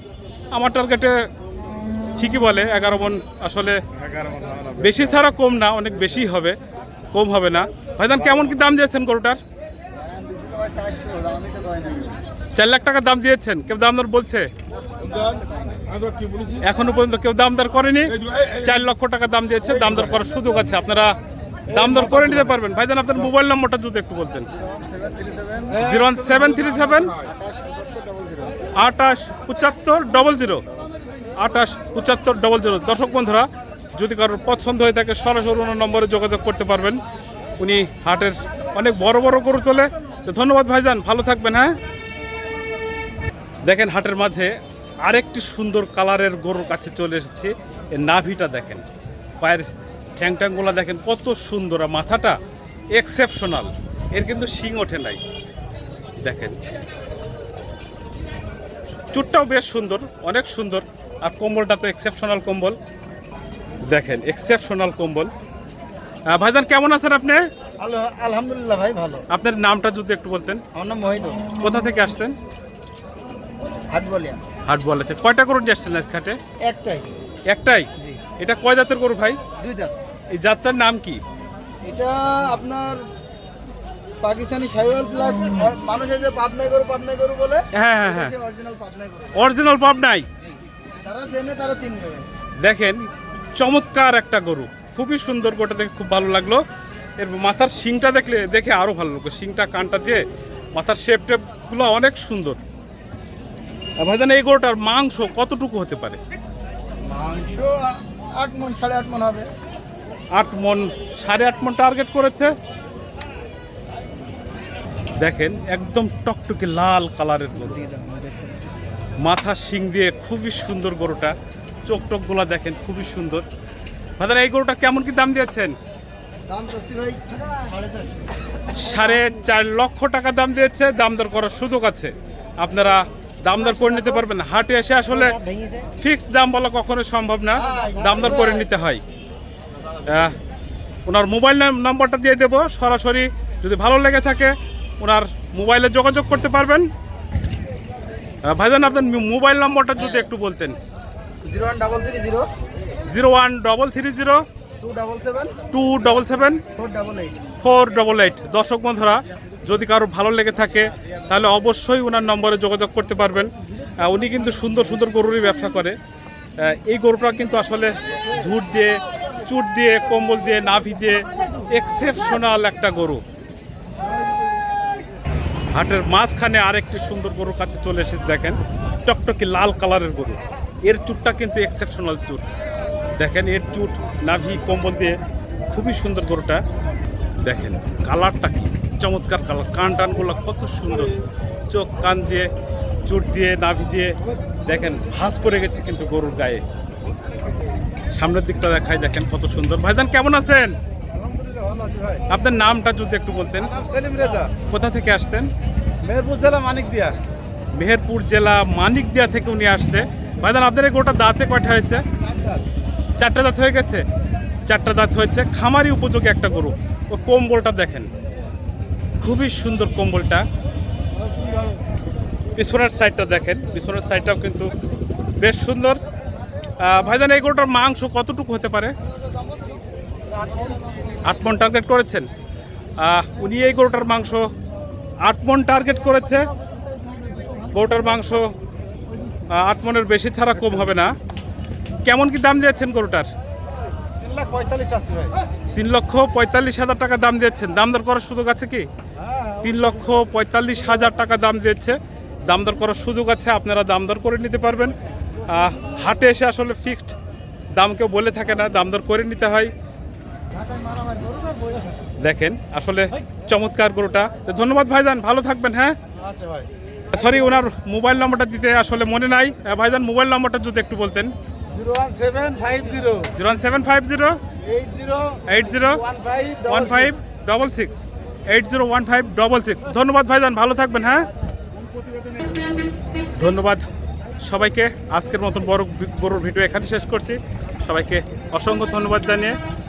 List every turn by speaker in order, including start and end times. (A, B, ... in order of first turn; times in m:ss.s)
0:00.5-0:01.1 A
0:02.2-0:03.8 A
0:04.8-0:06.6 A
0:07.1-0:09.4 A
0:10.0-0:12.1 B
0:12.6-0:14.5 A
0:15.0-0:15.5 B
0:16.6-0:21.2 A
0:21.7-0:24.5 A
0:24.7-0:25.8 B
0:25.7-0:27.2 A
0:27.3-0:28.5 B
0:28.8-0:30.6 A
0:31.4-0:37.0 A
0:37.6-0:41.7 A
0:43.6-0:44.5 A
0:45.0-0:48.8 A
0:49.4-0:49.7 A
0:50.2-0:52.4 A
0:52.9-0:55.2 A
0:56.2-0:56.6 A
0:59.1-1:02.8 A
1:03.9-1:05.3 A
1:06.3-1:07.4 A
1:07.8-1:09.2 C
1:09.3-1:10.6 A
1:10.7-1:11.5 C
1:11.6-1:12.3 A
1:13.9-1:14.4 C
1:14.7-1:16.4 A
1:16.6-1:17.1 C
1:17.5-1:19.4 A
1:19.6-1:19.9 C
1:20.3-1:21.2 A
1:21.8-1:23.0 C
1:24.2-1:29.4 C
1:27.7-1:28.3 A
1:29.3-1:30.2 A
1:31.0-1:32.3 C
1:32.6-1:36.6 A
1:37.2-1:40.2 A
1:40.7-1:42.6 A
1:44.0-1:46.2 A
1:47.1-1:49.5 C
1:50.3-1:52.5 A
1:55.2-1:57.9 A
1:59.2-2:01.3 A
2:01.8-2:03.4 A
2:04.2-2:05.8 A
2:06.5-2:08.2 C
2:08.7-2:15.4 A
2:16.0-2:19.0 A
2:17.6-2:18.6 C
2:20.1-2:20.3 A
2:21.0-2:26.9 A
2:28.4-2:30.8 A
2:31.4-2:32.5 C
2:33.1-2:34.4 A
2:34.8-2:35.6 C
2:35.7-2:36.6 A
2:36.7-2:37.4 C
2:37.6-2:43.5 A
2:44.0-2:46.0 A
2:46.6-2:53.2 A
2:54.0-2:54.4 C
2:55.7-3:02.4 A
3:03.2-3:05.2 A
3:05.7-3:06.6 A
3:07.4-3:11.1 A
3:11.7-3:12.5 A
3:13.1-3:16.6 A
3:18.1-3:20.7 A
3:21.3-3:22.2 B
3:22.3-3:23.7 A
3:23.8-3:24.4 C
3:24.0-3:24.4 B
3:24.6-3:25.5 A
3:26.1-3:27.1 B
3:27.7-3:32.0 A
3:33.2-3:34.0 A
3:34.7-3:38.1 A
3:39.2-3:40.4 A
3:42.6-3:44.7 A
3:45.4-3:46.0 A
3:46.8-3:48.9 A
3:51.2-3:52.3 A
3:53.0-3:54.4 A
3:55.2-3:56.5 A
3:57.7-3:58.5 A
3:59.5-4:01.1 A
4:02.0-4:03.3 A
4:04.2-4:05.3 B
4:05.7-4:08.9 A
4:09.6-4:14.9 A
4:15.5-4:17.1 A
4:17.8-4:19.7 A
4:20.7-4:21.5 C
4:22.2-4:26.0 A
4:27.1-4:31.3 A
4:31.8-4:33.3 B
4:32.4-4:32.9 C
4:33.3-4:34.4 A
4:34.7-4:35.4 B
4:35.5-4:36.0 A
4:36.1-4:36.7 B
4:36.6-4:41.3 A
4:43.4-4:43.8 A
4:44.4-4:49.5 A